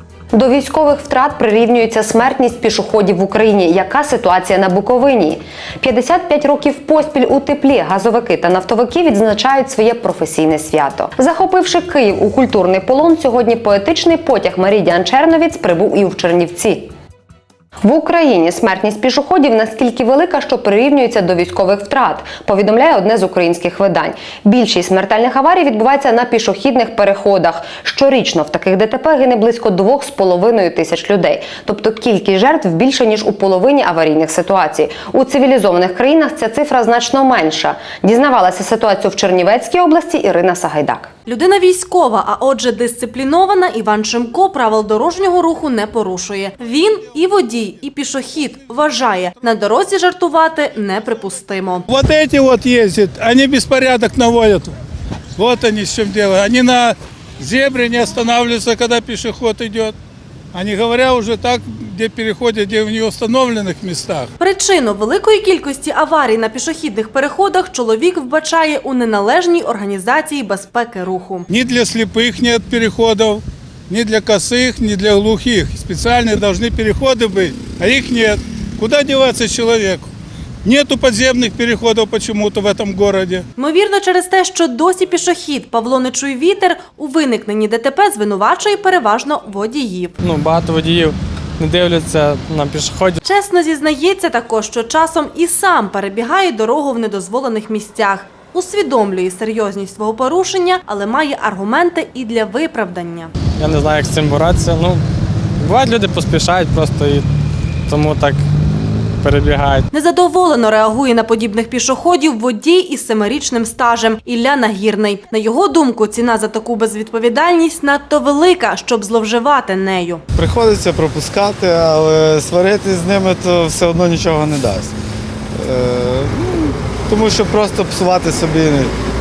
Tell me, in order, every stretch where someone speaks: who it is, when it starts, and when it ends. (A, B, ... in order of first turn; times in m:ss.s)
0:00.3-0:16.9 A
0:17.8-0:41.1 A
0:41.3-0:51.9 B
0:51.9-0:54.8 C
0:55.4-1:00.0 C
1:00.5-1:04.3 C
1:04.4-1:11.5 B
1:11.5-1:20.1 C
1:20.6-1:23.4 C
1:23.6-1:30.2 B
1:30.2-1:33.2 D
1:33.2-1:43.3 B
1:43.6-1:45.0 D
1:45.6-1:47.2 D
1:47.9-1:48.4 D
1:49.2-1:49.8 D
1:49.9-2:00.2 B
2:00.4-2:04.9 E
2:05.6-2:08.9 E